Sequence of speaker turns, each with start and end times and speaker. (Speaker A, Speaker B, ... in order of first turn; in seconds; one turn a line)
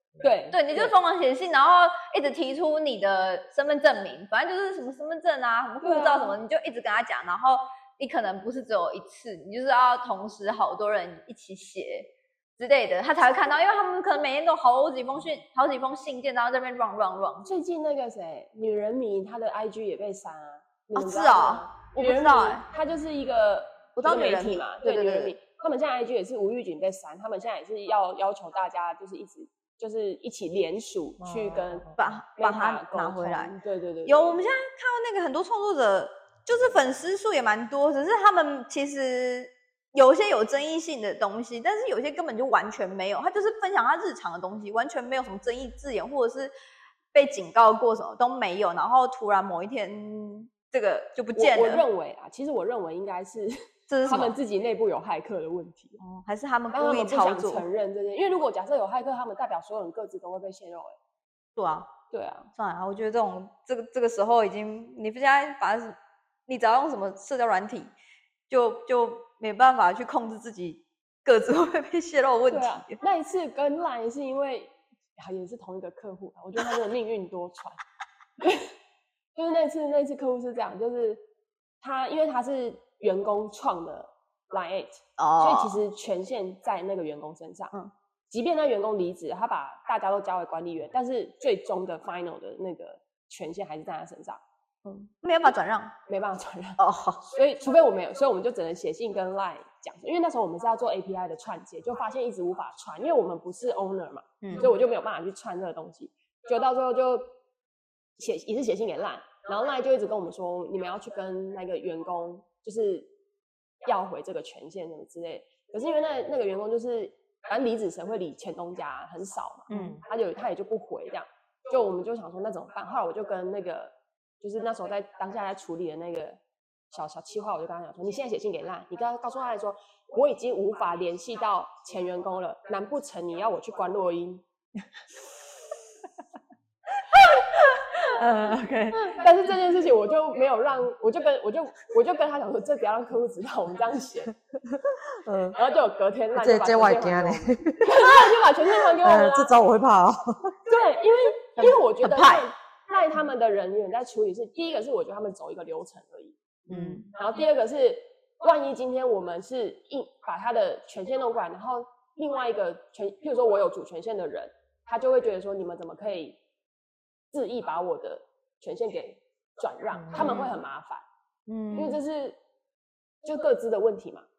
Speaker A: 0.2-0.9
Speaker B: 0.5-17.5
Speaker A: 5.8-6.4
Speaker A: 17.4-34.4
Speaker B: 20.9-22.6
Speaker B: 23.9-25.3
Speaker C: 31.2-32.2
Speaker B: 32.0-46.5
Speaker B: 47.1-51.8
Speaker A: 51.3-56.0
Speaker B: 53.9-54.4
Speaker B: 56.0-57.6
Speaker A: 56.7-61.0
Speaker B: 61.5-61.9
Speaker A: 62.1-62.5
Speaker B: 62.5-66.0
Speaker B: 66.5-67.9
Speaker B: 68.5-73.0
Speaker A: 72.5-77.8
Speaker A: 78.4-78.7
Speaker A: 79.3-81.2
Speaker A: 81.8-87.7
Speaker B: 85.2-85.8
Speaker A: 88.3-94.4
Speaker B: 94.8-95.9
Speaker A: 96.1-107.3
Speaker B: 96.8-97.2
Speaker B: 104.4-104.7
Speaker A: 108.2-113.1
Speaker A: 113.8-126.4
Speaker B: 119.7-120.0
Speaker A: 126.9-134.4
Speaker C: 137.0-139.2
Speaker A: 138.9-144.3
Speaker C: 144.7-145.6
Speaker A: 145.5-149.5
Speaker C: 146.3-150.6
Speaker A: 150.7-156.4
Speaker B: 151.6-152.5
Speaker B: 156.7-157.1
Speaker C: 156.7-157.0
Speaker A: 157.1-166.4
Speaker A: 167.3-171.1
Speaker C: 169.9-170.4
Speaker B: 170.1-170.5
Speaker B: 171.5-172.0
Speaker A: 171.7-172.4
Speaker A: 173.2-174.2